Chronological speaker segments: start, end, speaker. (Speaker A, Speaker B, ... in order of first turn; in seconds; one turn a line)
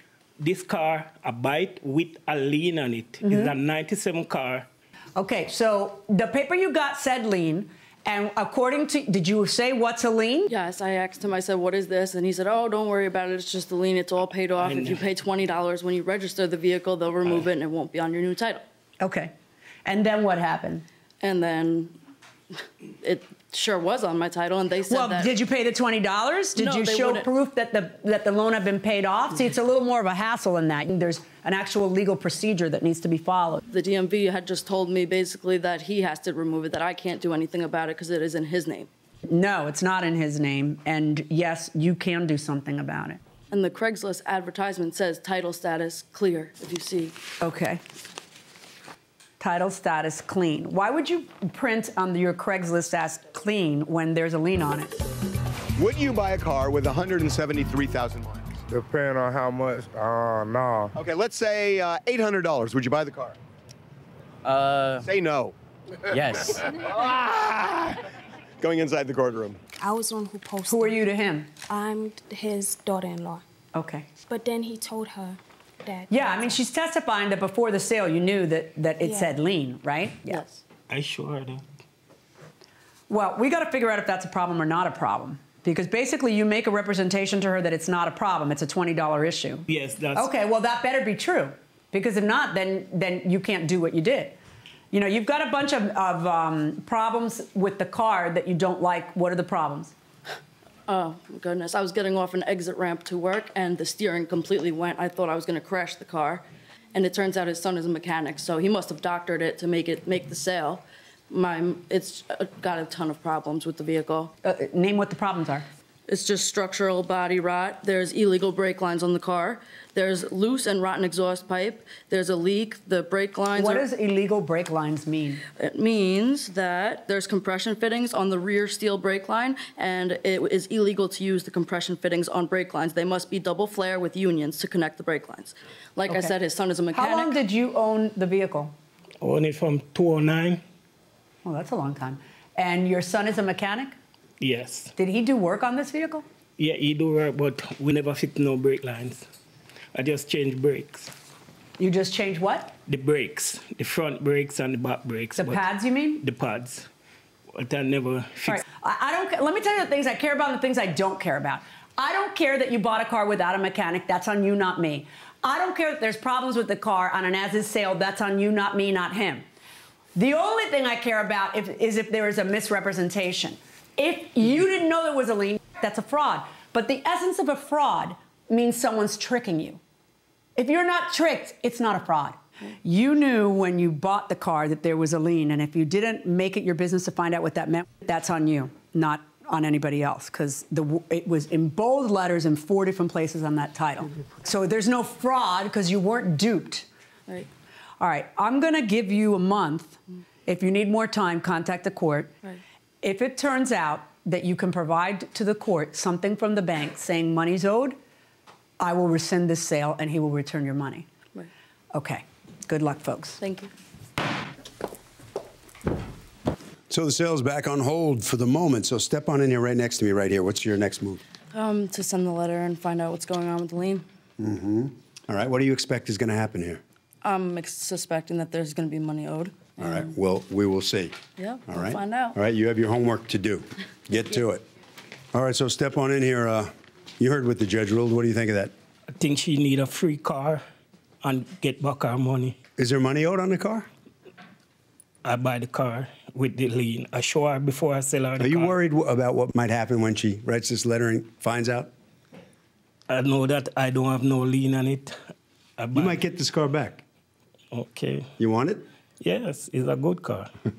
Speaker A: 0.4-4.7
Speaker B: 3.2-3.5
Speaker B: 5.2-10.5
Speaker C: 10.5-18.6
Speaker A: 14.6-15.0
Speaker B: 19.0-19.3
Speaker B: 19.8-20.8
Speaker C: 21.2-21.9
Speaker C: 22.5-25.3
Speaker B: 24.9-33.6
Speaker C: 26.6-27.3
Speaker C: 33.7-38.9
Speaker B: 39.3-43.2
Speaker C: 43.5-47.2
Speaker B: 47.4-47.8
Speaker B: 49.4-54.9
Speaker D: 55.8-58.6
Speaker E: 58.7-60.9
Speaker D: 60.9-63.4
Speaker D: 65.0-65.5
Speaker D: 66.2-68.0
Speaker F: 66.4-66.9
Speaker D: 68.6-69.6
Speaker F: 69.8-71.0
Speaker B: 70.7-71.5
Speaker F: 71.7-73.4
Speaker B: 73.7-74.1
Speaker F: 74.3-76.5
Speaker B: 76.1-80.4
Speaker F: 79.0-79.3
Speaker A: 80.9-81.6
Speaker B: 83.1-94.4
Speaker A: 89.7-90.3
Speaker B: 94.9-99.9
Speaker C: 100.9-114.3
Speaker B: 114.4-115.7
Speaker C: 116.1-123.8
Speaker B: 123.5-125.4
Speaker C: 125.6-137.4
Speaker B: 136.1-136.3
Speaker B: 136.9-138.7
Speaker A: 139.2-140.6
Speaker B: 141.4-143.9
Speaker A: 144.4-144.9
Speaker B: 144.9-146.2
Speaker A: 146.6-149.3
Speaker A: 149.9-151.1
Speaker B: 151.8-152.7
Speaker A: 152.9-155.6
Speaker B: 155.4-156.2
Speaker A: 156.2-156.9
Speaker A: 157.5-158.6
Speaker B: 158.4-169.4
Speaker B: 170.1-179.8
Speaker B: 180.6-196.9
Speaker B: 198.0-202.3
Speaker B: 203.0-208.0
Speaker B: 208.8-211.1
Speaker B: 211.9-213.4
Speaker C: 213.4-213.7
Speaker G: 216.9-221.2
Speaker C: 221.5-224.0
Speaker G: 224.4-226.8
Speaker C: 227.2-229.9
Speaker G: 229.8-231.2
Speaker C: 231.4-232.4
Speaker G: 231.7-234.6
Speaker G: 235.3-238.7
Speaker A: 239.1-240.6
Speaker A: 241.2-242.6
Speaker G: 242.8-243.9
Speaker A: 245.2-248.7
Speaker G: 248.4-251.9
Speaker A: 253.1-255.2
Speaker A: 255.8-256.2
Speaker G: 255.9-257.0
Speaker A: 257.7-258.3
Speaker G: 258.4-258.8
Speaker A: 259.2-260.5